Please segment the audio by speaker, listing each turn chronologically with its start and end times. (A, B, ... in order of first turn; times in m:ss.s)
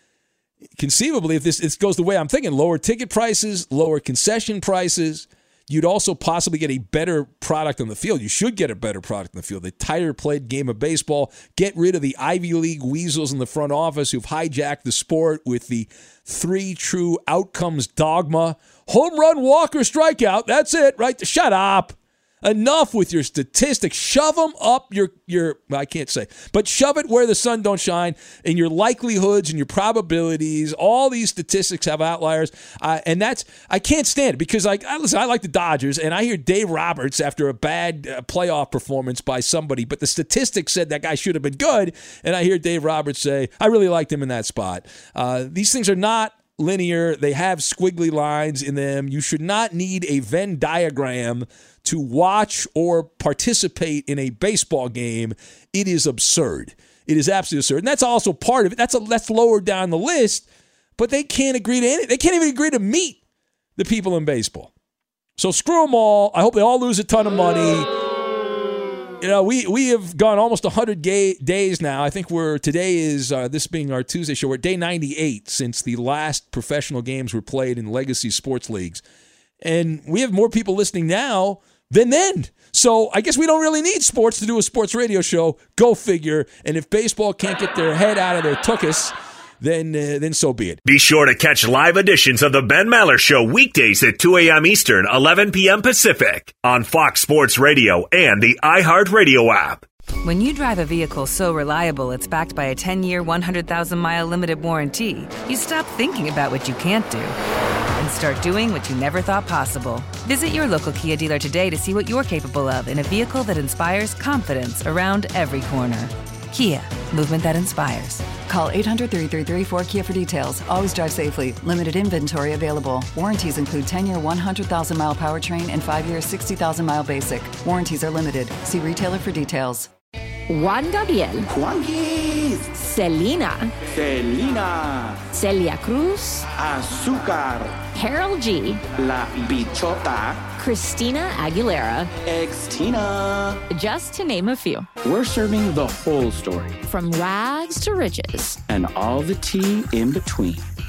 0:00.8-1:00.4 A
1:01.0-1:03.2 A
1:03.8-1:04.7 A
1:05.4-1:07.9 A
1:09.2-1:19.0 A
1:19.6-1:30.8 A
1:30.8-1:39.8 B
1:40.2-1:47.4 C
1:48.0-1:58.3 C
1:58.4-2:09.9 D
2:10.5-2:11.5 E
2:11.5-2:12.7 F
2:12.8-2:13.7 E
2:13.8-2:15.2 F
2:15.3-2:16.4 E
2:16.5-2:17.9 F
2:17.9-2:18.8 E
2:18.9-2:20.5 F
2:20.6-2:22.1 E
2:22.2-2:23.6 F
2:23.7-2:24.9 E
2:25.0-2:26.8 F
2:26.9-2:28.6 E
2:28.7-2:30.6 F